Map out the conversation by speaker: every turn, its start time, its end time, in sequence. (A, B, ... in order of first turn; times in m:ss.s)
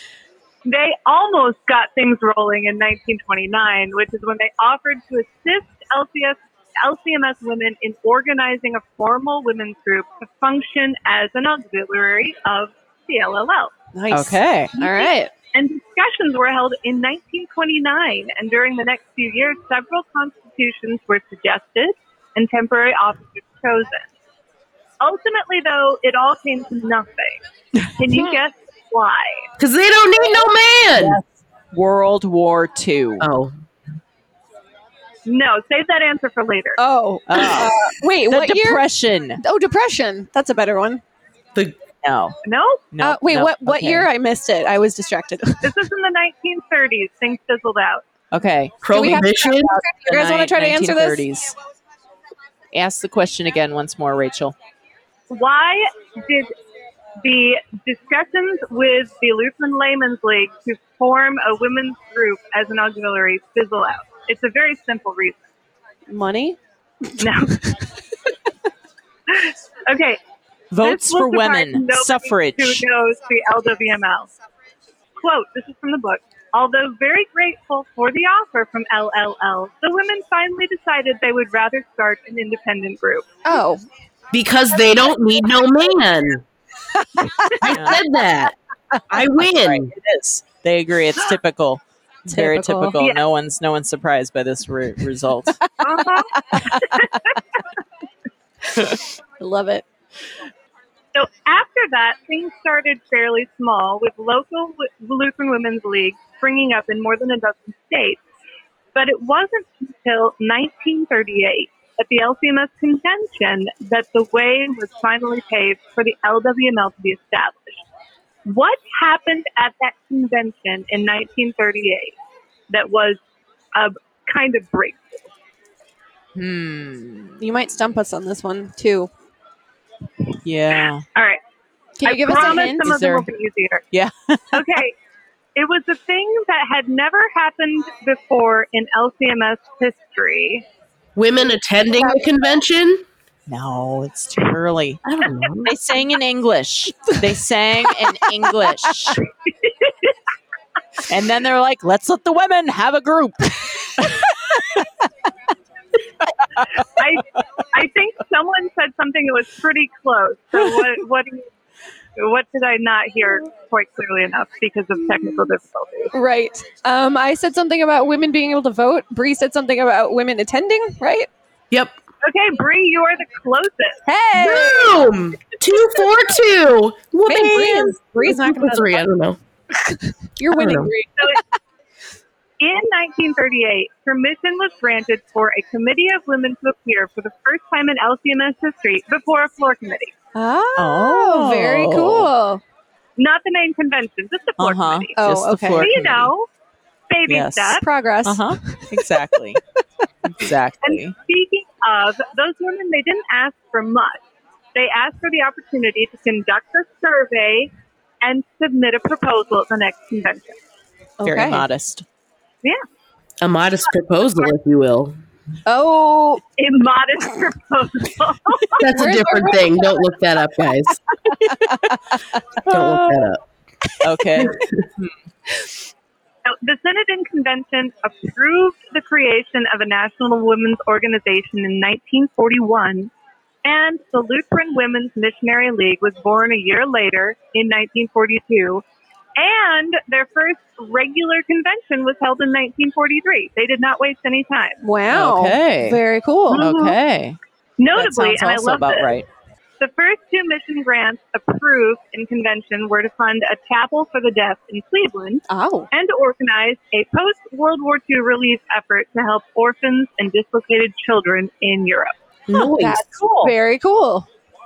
0:00.6-0:13.7 A
0:13.9-0:15.3 B
0:14.1-0:14.7 C
0:14.8-0:24.1 A
0:25.0-0:27.4 A
0:28.0-0:29.4 A
0:29.6-0:31.2 D
0:30.9-0:33.3 C
0:33.2-0:33.5 D
0:35.2-0:36.8 A
0:36.8-0:38.8 B
0:37.3-0:39.4 C
0:39.4-0:41.0 B
0:42.0-0:42.4 C
0:42.4-0:42.8 A
0:42.9-0:44.1 C
0:43.0-0:45.8 B
0:45.6-0:48.0 A
0:48.3-0:49.3 C
0:48.8-0:49.8 D
0:48.9-0:51.2 B
0:49.8-0:51.5 C
0:52.7-0:54.5 C
0:55.3-0:56.5 A
0:57.2-1:05.4 A
1:06.1-1:07.8 B
1:07.2-1:07.6 A
1:09.3-1:10.2 A
1:10.7-1:12.8 C
1:10.8-1:14.3 A
1:15.2-1:23.6 A
1:23.4-1:23.8 B
1:24.3-1:26.4 D
1:27.0-1:27.6 B
1:27.6-1:28.5 D
1:27.6-1:28.0 C
1:29.1-1:29.9 D
1:29.2-1:35.6 C
1:32.3-1:33.0 B
1:35.8-1:37.4 A
1:38.7-1:39.8 B
1:41.1-1:48.2 A
1:48.9-1:57.8 A
1:58.4-2:02.2 A
2:02.7-2:03.2 A
2:03.7-2:05.3 A
2:06.3-2:07.4 C
2:07.4-2:09.1 B
2:10.4-2:11.0 C
2:11.1-2:11.4 A
2:12.0-2:12.8 B
2:12.0-2:13.8 A
2:12.3-2:13.3 C
2:13.9-2:14.6 C
2:14.5-2:15.0 A
2:15.5-2:20.6 A
2:21.2-2:23.0 D
2:23.5-2:25.0 C
2:25.0-2:25.7 D
2:25.6-2:29.2 C
2:29.4-2:30.1 A
2:31.1-2:34.8 C
2:36.6-2:37.4 C
2:37.0-2:41.5 A
2:42.2-2:46.1 A
2:46.1-2:51.3 B
2:51.7-2:52.0 D
2:52.2-2:54.0 A
2:54.0-2:55.0 B
2:54.4-2:59.4 D
2:57.2-2:59.0 B
2:59.7-3:01.4 B
3:00.5-3:00.9 D
3:02.6-3:10.1 A
3:10.3-3:12.6 B
3:10.8-3:12.3 C
3:13.2-3:15.1 A
3:14.6-3:16.3 C
3:15.2-3:15.9 B
3:15.8-3:16.5 A
3:17.1-3:17.8 A
3:17.3-3:19.6 C
3:17.8-3:19.8 B
3:20.2-3:21.1 C
3:20.8-3:24.2 A
3:24.7-3:27.7 A
3:28.2-3:30.6 A
3:31.2-3:31.6 B
3:31.2-3:32.0 C
3:33.4-3:35.2 D
3:35.6-3:36.4 B
3:36.6-3:38.8 A
3:38.8-3:40.0 B
3:38.8-3:41.0 D
3:41.4-3:41.9 B
3:41.6-3:41.9 C
3:42.6-3:43.3 C
3:42.7-3:43.4 D
3:44.0-3:45.1 C
3:44.4-3:44.8 D
3:46.4-3:53.1 A
3:53.6-3:58.8 A
3:59.4-4:04.8 A
4:04.8-4:06.6 B
4:05.1-4:07.4 C
4:06.5-4:07.0 A
4:07.8-4:09.1 A
4:07.9-4:09.3 C
4:09.8-4:22.1 A
4:15.5-4:15.9 B
4:22.5-4:23.1 D
4:22.5-4:23.5 C
4:22.6-4:24.3 B